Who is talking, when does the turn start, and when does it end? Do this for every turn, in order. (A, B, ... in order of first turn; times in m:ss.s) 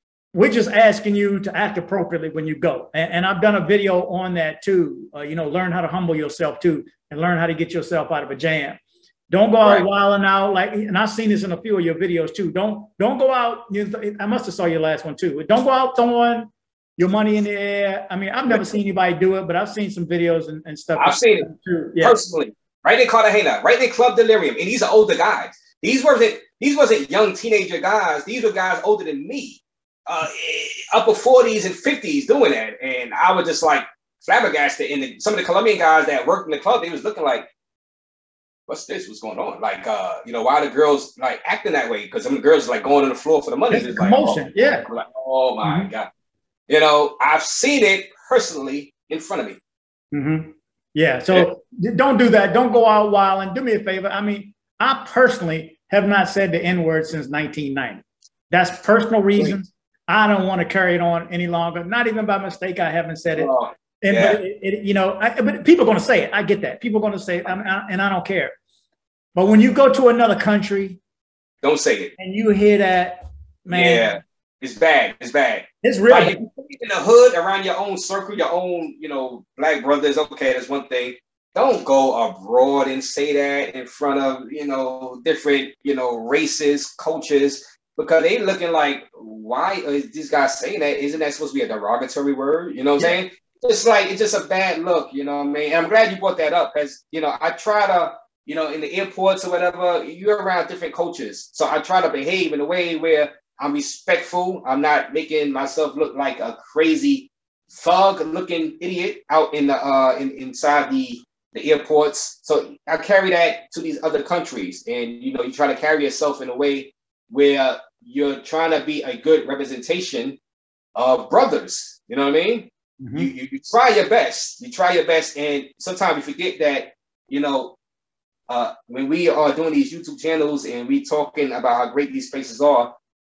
0:00.3-0:08.8 A
0:09.3-0:22.2 A
0:21.0-0:21.5 B
0:22.0-0:37.5 B
0:38.7-0:46.1 B
0:43.7-0:44.8 A
0:45.6-0:45.9 A
0:46.7-0:49.6 B
0:50.1-1:08.5 A
1:03.3-1:04.4 B
1:09.3-1:11.0 A
1:11.6-1:12.1 B
1:12.2-1:14.1 A
1:13.7-2:00.4 B
1:15.8-1:16.4 A
2:00.9-2:07.8 B
2:03.0-2:03.3 A
2:08.5-2:12.9 B